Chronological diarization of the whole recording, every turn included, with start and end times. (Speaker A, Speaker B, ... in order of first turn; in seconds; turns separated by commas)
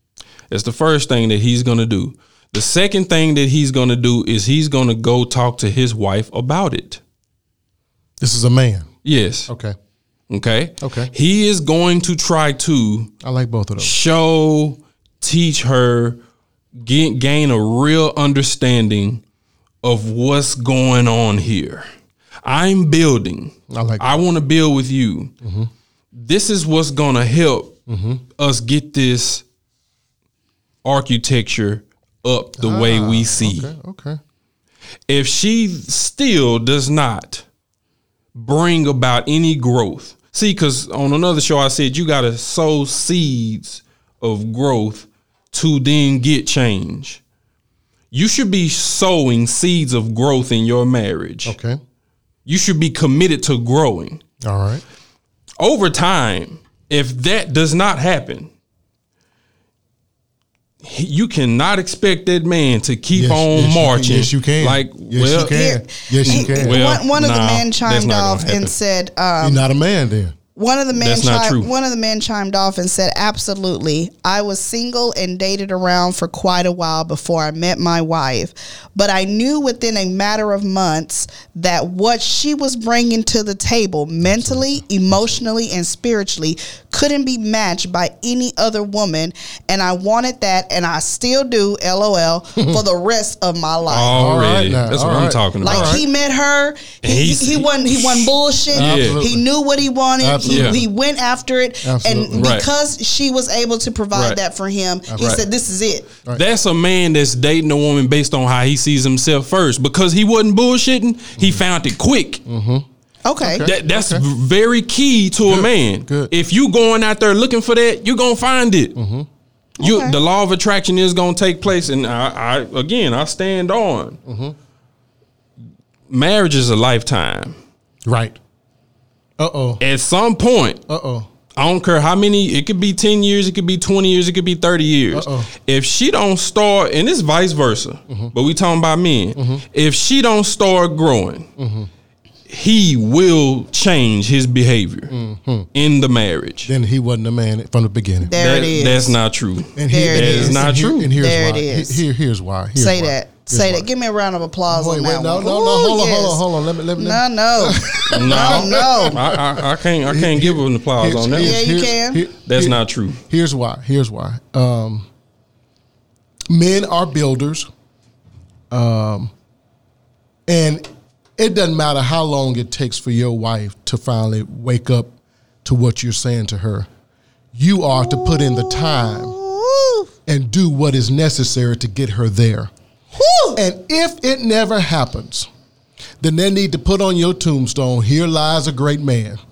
Speaker A: 0.5-7.0, Speaker B: 8.2-8.9, Speaker A: 9.0-9.5, Speaker B: 9.5-9.8, Speaker A: 10.3-13.1, Speaker B: 10.8-11.1, Speaker B: 13.2-13.9, Speaker A: 13.8-16.2, Speaker A: 16.8-19.2, Speaker A: 19.8-21.9, Speaker A: 22.4-25.3, Speaker B: 23.7-24.2, Speaker B: 25.4-25.7, Speaker A: 26.1-27.8, Speaker B: 27.9-28.2, Speaker A: 28.4-29.4, Speaker A: 30.9-33.7, Speaker B: 32.6-34.2, Speaker A: 35.1-37.5, Speaker A: 38.3-47.2, Speaker A: 48.1-51.5, Speaker B: 51.5-51.8, Speaker A: 52.5-54.2, Speaker B: 54.4-54.8, Speaker A: 55.6-58.5, Speaker A: 60.8-65.6, Speaker B: 63.1-66.8, Speaker C: 65.4-69.6, Speaker A: 66.2-68.7, Speaker B: 69.4-70.4, Speaker C: 70.6-94.1, Speaker A: 70.9-71.7, Speaker B: 84.2-85.3, Speaker B: 92.6-92.8, Speaker A: 93.9-96.0, Speaker B: 94.1-96.0, Speaker C: 95.6-106.1, Speaker A: 97.0-99.2, Speaker B: 98.7-99.5, Speaker B: 100.2-100.9, Speaker A: 100.4-100.8, Speaker B: 101.8-102.5, Speaker A: 102.3-102.7, Speaker A: 104.1-104.4, Speaker B: 105.1-105.4, Speaker A: 106.3-112.5, Speaker B: 112.5-112.9, Speaker C: 113.2-113.7, Speaker B: 113.4-114.2, Speaker A: 113.6-119.0, Speaker B: 115.4-116.3, Speaker B: 119.0-119.3, Speaker C: 119.8-120.2, Speaker A: 119.8-124.2, Speaker B: 124.2-124.5, Speaker A: 126.1-127.6, Speaker B: 128.1-128.4, Speaker B: 129.4-129.8, Speaker A: 129.8-130.8, Speaker B: 130.9-131.3, Speaker A: 131.6-141.5, Speaker B: 135.1-135.5, Speaker B: 139.4-139.6, Speaker B: 141.6-141.9, Speaker A: 142.5-145.1, Speaker B: 145.1-145.7, Speaker A: 145.7-146.7, Speaker B: 146.7-148.3, Speaker C: 148.3-149.2, Speaker A: 148.4-151.1, Speaker B: 149.8-153.9, Speaker C: 149.9-152.0, Speaker C: 152.8-156.4, Speaker B: 154.7-165.1, Speaker C: 157.0-159.2, Speaker A: 158.1-161.6, Speaker C: 161.3-162.2, Speaker A: 162.4-163.2, Speaker B: 166.5-167.7, Speaker B: 168.7-169.3, Speaker B: 170.5-170.8, Speaker B: 171.4-176.9, Speaker B: 177.5-179.3, Speaker C: 177.9-180.1, Speaker B: 180.3-182.7, Speaker C: 183.2-183.6, Speaker B: 183.6-185.5, Speaker B: 186.2-189.4